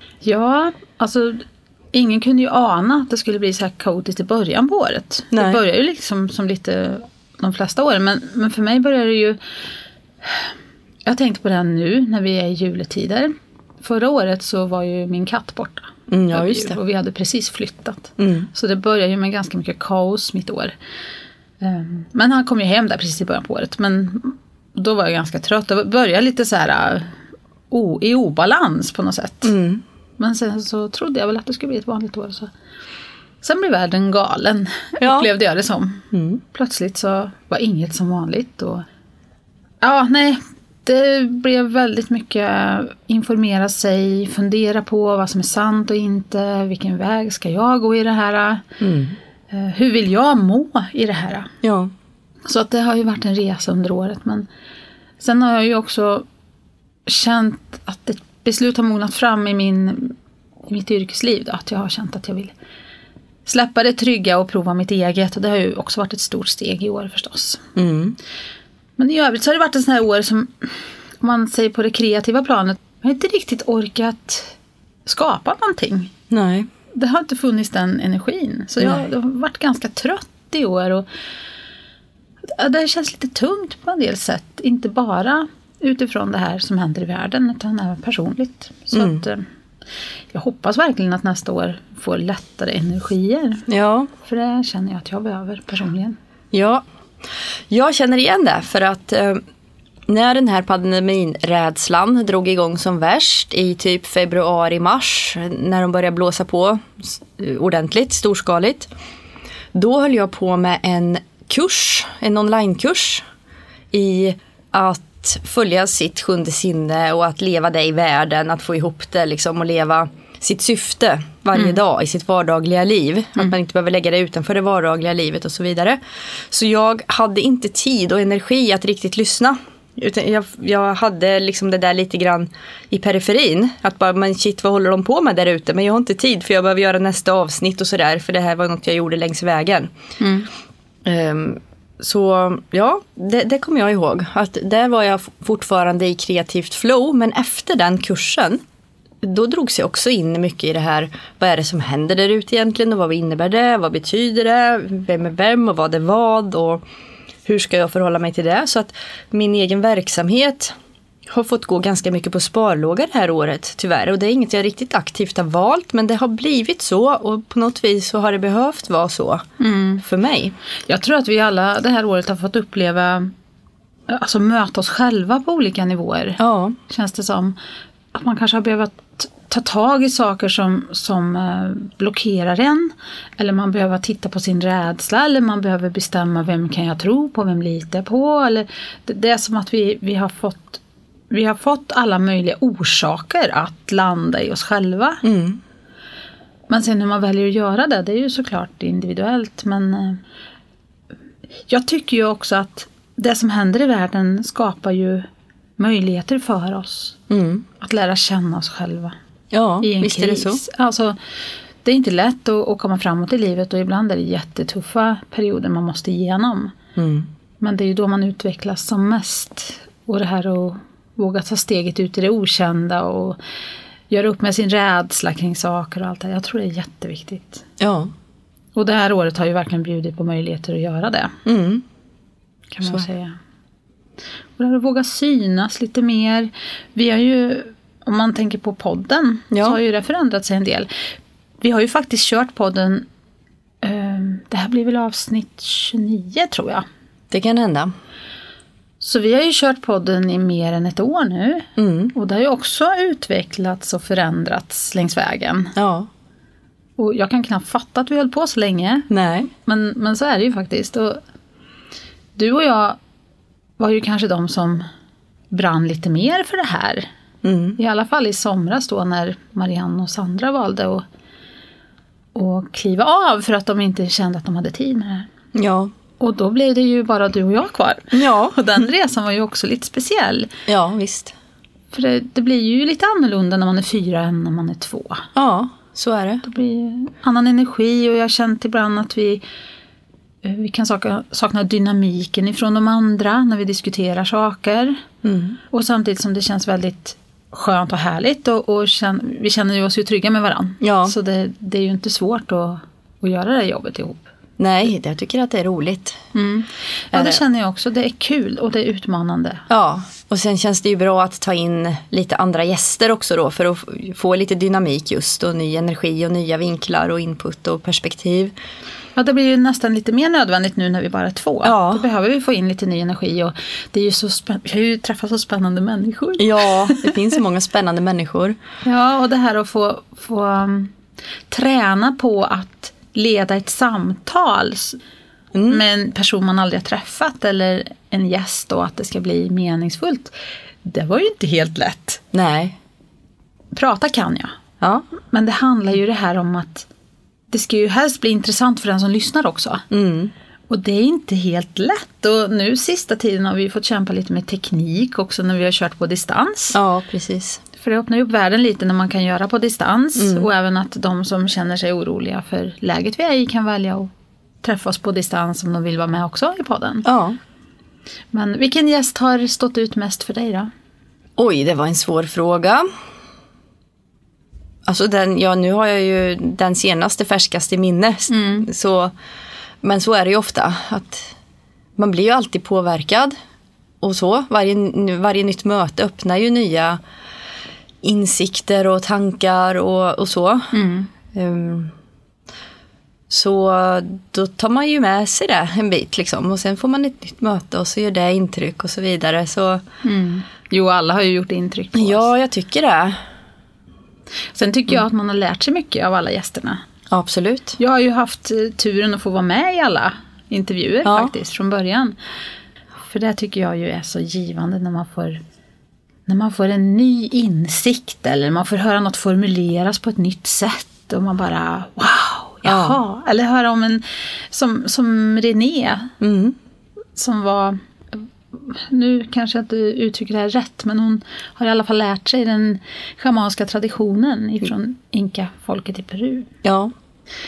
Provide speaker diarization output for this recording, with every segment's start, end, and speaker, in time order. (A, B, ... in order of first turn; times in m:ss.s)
0:00.2-0:09.4 A
0:05.3-0:05.6 B
0:11.0-0:20.7 A
0:16.1-0:16.8 B
0:18.2-0:18.5 B
0:21.6-0:27.1 A
0:27.7-0:29.5 A
0:29.4-0:29.8 B
0:30.2-0:32.5 A
0:33.4-0:38.8 A
0:35.0-0:35.3 B
0:36.1-0:36.4 B
0:39.8-0:48.7 A
0:48.8-0:49.2 B
0:49.5-0:51.5 A
0:51.6-0:51.9 B
0:52.4-0:54.5 A
0:55.2-0:56.2 A
0:57.0-1:00.2 A
1:00.7-1:02.5 A
1:03.4-1:07.7 A
1:07.8-1:08.2 B
1:09.0-1:14.5 A
1:15.0-1:16.1 A
1:16.3-1:16.7 B
1:16.9-1:21.0 A
1:22.4-1:29.4 A
1:28.9-1:29.2 B
1:30.3-1:33.7 A
1:33.7-1:34.1 B
1:34.2-1:36.2 A
1:36.5-1:36.8 B
1:37.7-1:39.4 B
1:40.1-1:48.9 B
1:49.7-1:53.2 B
1:53.9-2:06.0 B
2:06.5-2:19.9 B
2:20.2-2:20.5 A
2:21.0-2:28.6 B
2:29.2-2:36.8 B
2:37.4-2:40.7 B
2:41.3-2:49.4 B
2:49.6-2:50.0 A
2:50.0-2:50.5 B
2:50.9-2:53.3 A
2:54.1-2:57.5 A
2:56.4-2:56.8 B
2:58.1-3:15.2 A
3:15.2-3:15.6 B
3:16.7-3:20.2 A
3:21.7-3:25.2 A
3:25.8-3:27.2 A
3:27.3-3:27.6 B
3:27.8-3:29.1 A
3:29.5-3:30.6 B
3:29.8-3:31.2 A
3:31.8-3:36.7 A
3:37.0-3:37.3 B
3:37.6-3:43.4 A
3:44.1-3:47.6 A
3:47.8-3:48.1 B
3:48.7-3:51.4 A
3:51.4-3:51.8 B
3:52.7-3:53.4 A
3:54.6-4:00.9 A
3:59.5-3:59.8 B
4:01.6-4:03.0 A
4:03.8-4:06.8 A
4:07.3-4:07.9 B
4:09.0-4:15.7 A
4:11.8-4:12.1 B
4:15.8-4:16.1 B
4:17.0-4:21.2 A
4:19.1-4:19.5 B
4:22.4-4:23.0 A
4:23.8-4:24.8 A
4:25.5-4:27.0 A
4:27.4-4:27.8 B
4:27.8-4:31.0 A
4:32.3-4:35.3 A
4:35.5-4:35.9 B
4:36.2-4:40.5 A
4:38.1-4:38.6 B
4:40.7-4:41.3 B
4:41.9-4:45.3 A
4:45.4-4:46.4 B
4:46.4-4:49.4 A
4:50.4-4:55.0 A
4:55.2-4:55.6 B
4:55.7-5:04.3 A
5:00.8-5:01.1 B
5:04.6-5:06.2 B
5:06.3-5:09.6 A
5:07.1-5:07.4 B
5:09.7-5:18.5 B
5:19.2-5:27.3 A
5:21.6-5:22.0 B
5:26.4-5:28.6 B
5:28.8-5:30.9 A
5:31.5-5:35.0 A
5:35.5-5:35.8 B
5:35.7-5:40.3 A
5:40.8-5:42.2 A
5:42.3-5:42.8 B
5:43.7-5:44.5 A
5:44.8-5:45.0 B
5:45.3-5:46.9 A
5:47.5-5:49.8 A
5:49.9-5:50.3 B
5:50.7-5:56.8 A
5:56.7-5:57.6 B
5:57.8-6:04.1 A
6:00.2-6:00.4 B
6:04.6-6:07.0 A
6:07.0-6:07.4 B
6:08.3-6:10.7 A
6:11.4-6:12.9 B
6:14.8-6:19.1 B
6:18.3-6:18.7 A
6:19.8-6:21.3 B
6:22.0-6:23.3 B
6:24.0-6:27.0 B
6:28.0-6:30.7 B
6:30.7-6:31.1 A
6:31.3-6:31.9 B
6:33.3-6:39.8 B
6:40.0-6:42.3 A
6:41.9-6:43.2 B
6:44.5-6:46.8 A
6:47.1-6:47.8 B
6:47.8-6:52.1 A
6:51.0-6:51.3 B
6:53.0-6:55.4 A
6:56.3-7:06.1 A
7:02.6-7:03.0 B
7:06.2-7:06.6 B
7:07.2-7:16.5 A
7:16.6-7:16.9 B